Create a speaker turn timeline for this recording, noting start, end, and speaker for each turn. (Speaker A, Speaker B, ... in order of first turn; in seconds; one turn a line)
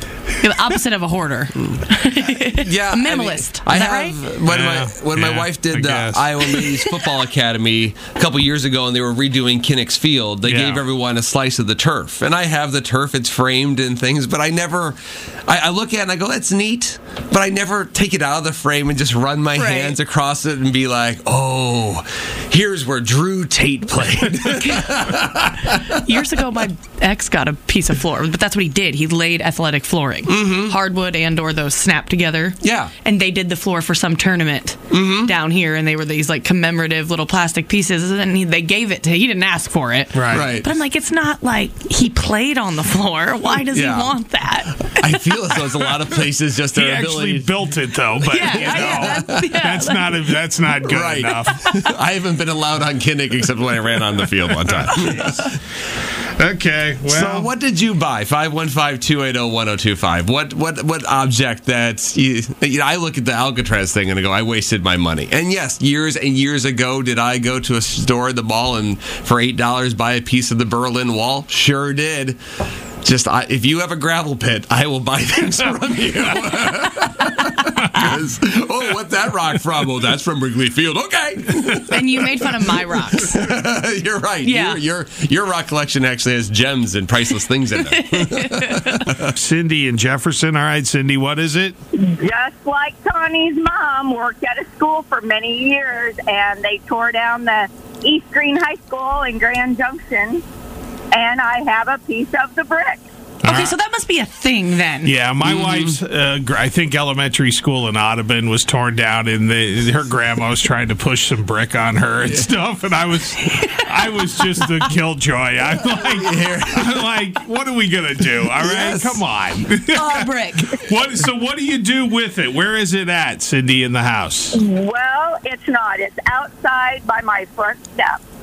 Speaker A: 0.3-0.5
Speaker B: 0.4-4.2
Speaker C: 2.5-25.8
Speaker A: 4.5-6.8
Speaker A: 10.4-10.8
Speaker B: 19.6-20.0
Speaker B: 24.6-25.2
Speaker B: 25.9-45.8
Speaker C: 30.3-30.8
Speaker C: 32.6-32.9
Speaker C: 34.9-35.3
Speaker A: 40.1-40.5
Speaker C: 40.3-40.7
Speaker C: 43.7-44.2
Speaker C: 44.9-47.5
Speaker A: 46.7-51.8
Speaker C: 48.2-49.5
Speaker B: 48.3-50.2
Speaker C: 50.8-55.5
Speaker A: 56.4-57.5
Speaker C: 57.1-72.4
Speaker C: 73.0-89.3
Speaker B: 81.9-83.3
Speaker B: 84.4-84.8
Speaker B: 88.0-89.0
Speaker A: 89.1-91.8
Speaker D: 91.9-100.4
Speaker D: 101.1-103.0
Speaker A: 103.4-103.8
Speaker B: 103.4-105.1
Speaker A: 105.0-124.6
Speaker C: 105.4-105.9
Speaker C: 116.0-117.1
Speaker C: 118.3-119.2
Speaker B: 119.9-120.7
Speaker D: 124.5-128.2